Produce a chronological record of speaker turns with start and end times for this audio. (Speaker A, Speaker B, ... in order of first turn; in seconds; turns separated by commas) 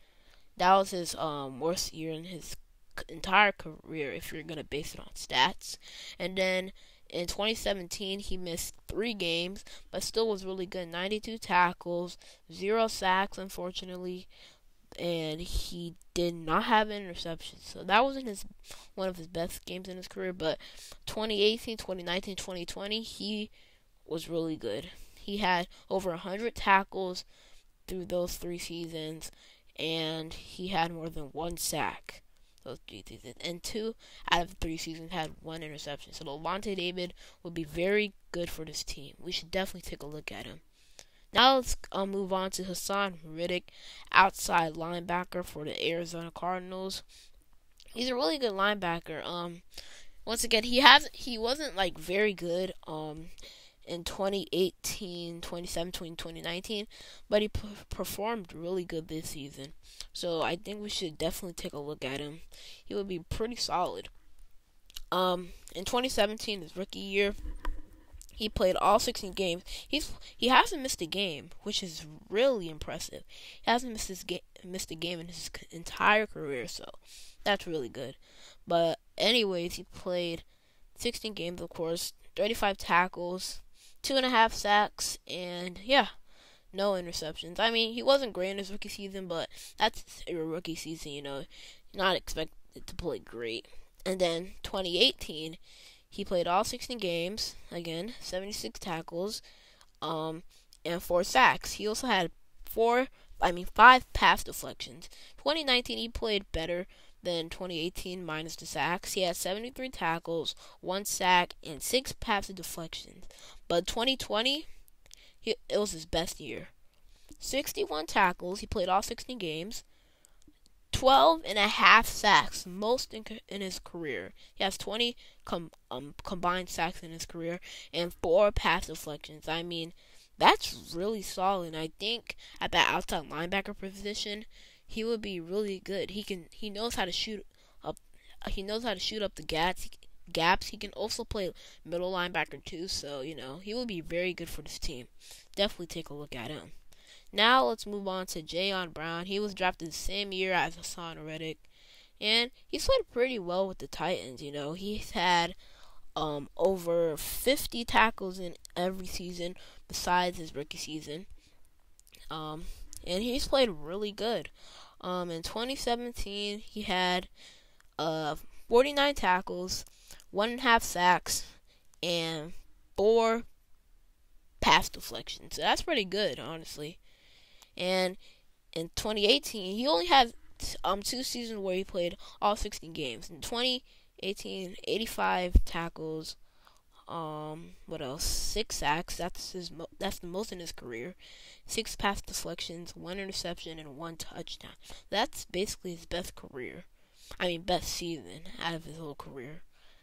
Speaker A: 0.6-14.3, Speaker A: 15.0-23.5, Speaker A: 24.1-27.2, Speaker A: 27.9-40.6, Speaker A: 41.3-47.0, Speaker A: 47.9-49.6, Speaker A: 50.2-53.3, Speaker A: 53.9-64.1, Speaker A: 65.1-67.3, Speaker A: 68.4-86.1, Speaker A: 86.7-95.6, Speaker A: 96.1-99.4, Speaker A: 100.0-114.7, Speaker A: 115.4-116.7, Speaker A: 117.4-119.8, Speaker A: 120.9-146.7, Speaker A: 147.3-151.6, Speaker A: 152.2-155.6, Speaker A: 156.2-161.3, Speaker A: 162.3-167.3, Speaker A: 168.0-173.5, Speaker A: 174.6-177.0, Speaker A: 177.8-178.2, Speaker A: 178.7-186.4, Speaker A: 187.1-196.9, Speaker A: 197.4-199.6